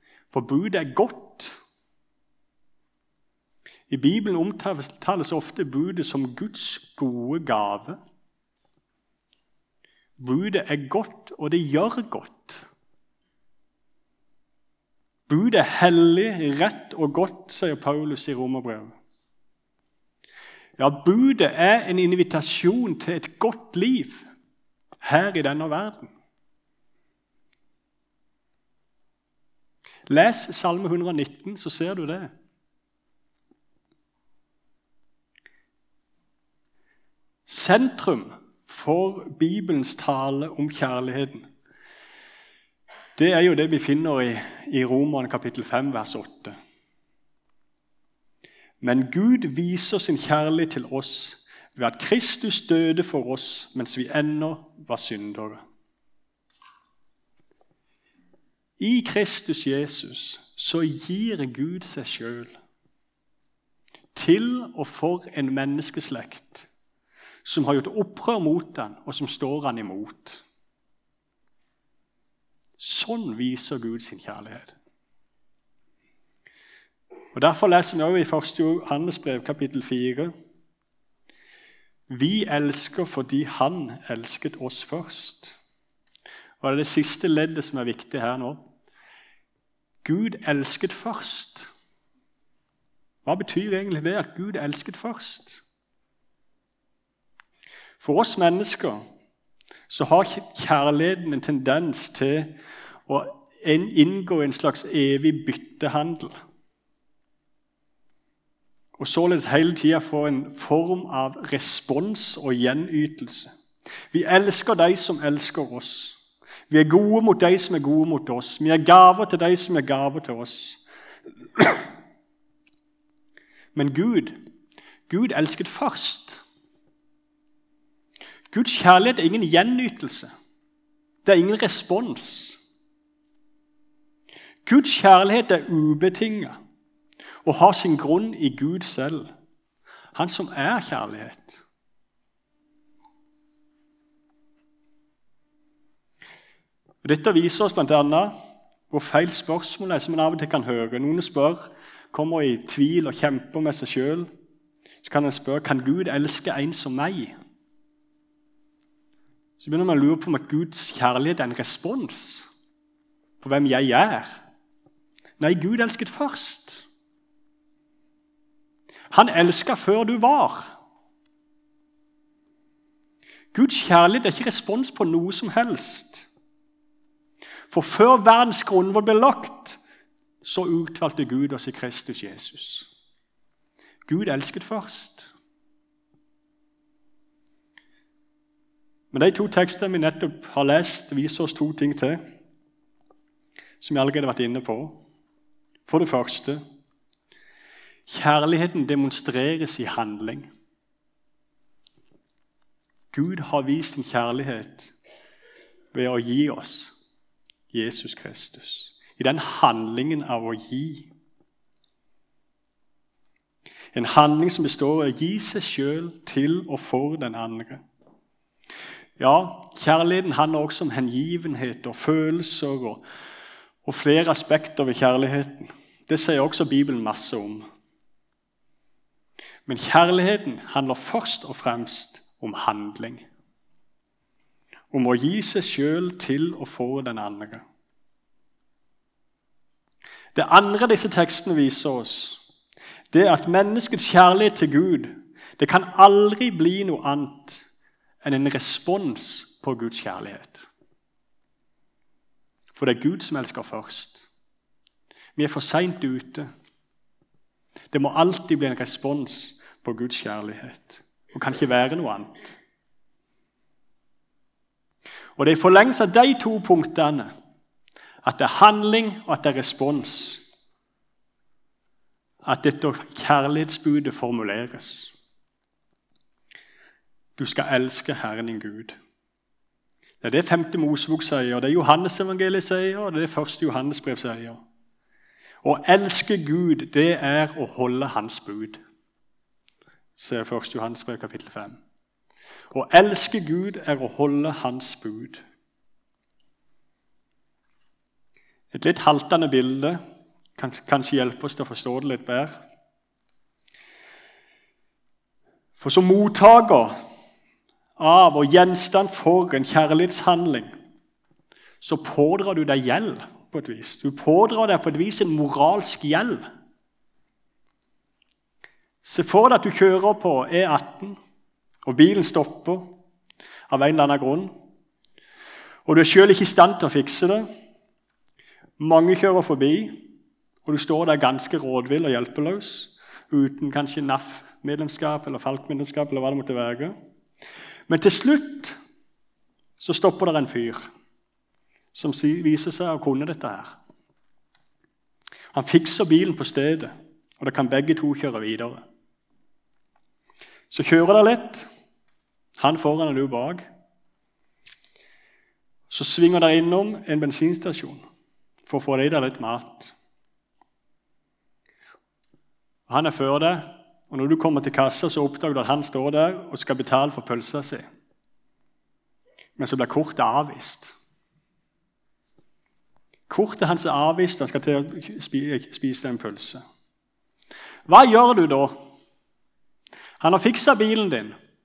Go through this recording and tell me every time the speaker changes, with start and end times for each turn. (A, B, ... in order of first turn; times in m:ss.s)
0:00.3-0:01.6 A
0:03.9-0:08.0 A
0:10.2-0:12.6 A
0:15.3-0:19.0 A
0:20.8-0:24.2 A
0:25.0-0:26.1 A
0:30.1-0:32.3 A
0:37.4-0:41.5 A
0:43.2-0:46.5 A
0:48.8-0:55.6 A
0:58.8-1:02.6 A
1:04.1-1:06.7 A
1:07.4-1:10.4 A
1:12.8-1:14.7 A
1:17.3-1:20.3 A
1:22.1-1:25.6 A
1:26.6-1:28.6 A
1:30.0-1:31.7 A
1:33.2-1:35.6 A
1:38.0-1:39.0 A
1:39.9-1:42.5 A
1:43.1-1:46.4 A
1:49.0-1:53.5 A
1:54.1-2:00.8 A
2:03.7-2:04.4 A
2:05.1-2:06.4 A
2:08.5-2:10.3 A
2:11.2-2:12.6 A
2:14.6-2:16.6 A
2:17.4-2:19.3 A
2:20.1-2:21.6 A
2:27.0-2:28.3 A
2:28.9-2:34.3 A
2:35.0-2:37.3 A
2:39.6-2:42.5 A
2:43.4-2:44.4 A
2:45.4-2:46.8 A
2:49.1-2:50.7 A
2:53.5-2:56.3 A
2:57.7-2:59.8 A
3:00.4-3:02.9 A
3:04.1-3:05.3 A
3:09.1-3:12.2 A
3:13.8-3:15.0 A
3:15.8-3:16.6 A
3:18.1-3:20.5 A
3:23.1-3:24.9 A
3:25.9-3:26.9 A
3:27.7-3:31.1 A
3:33.9-3:37.8 A
3:39.2-3:43.0 A
3:43.8-3:47.6 A
3:49.6-3:53.2 A
3:54.9-3:57.6 A
4:00.3-4:02.4 A
4:03.1-4:07.7 A
4:08.2-4:10.7 A
4:12.7-4:14.3 A
4:15.4-4:16.5 A
4:17.9-4:22.6 A
4:25.4-4:27.3 A
4:28.2-4:30.4 A
4:32.4-4:35.1 A
4:37.4-4:39.0 A
4:40.2-4:44.6 A
4:45.6-4:48.8 A
4:50.2-4:51.8 A
4:52.7-4:55.4 A
4:58.7-5:00.0 A
5:00.6-5:02.6 A
5:05.8-5:06.9 A
5:08.0-5:10.7 A
5:11.8-5:16.4 A
5:19.0-5:21.2 A
5:21.8-5:22.9 A
5:23.7-5:24.5 A
5:25.8-5:27.4 A
5:28.8-5:29.9 A
5:30.6-5:36.9 A
5:37.9-5:38.8 A
5:39.8-5:40.8 A
5:41.9-5:43.8 A
5:45.5-5:48.8 A
5:50.7-5:51.7 A
5:52.6-5:53.6 A
5:55.9-5:58.0 A
5:58.6-5:59.9 A
6:02.9-6:07.8 A
6:09.6-6:11.0 A
6:13.3-6:16.6 A
6:17.9-6:18.8 A
6:20.2-6:21.3 A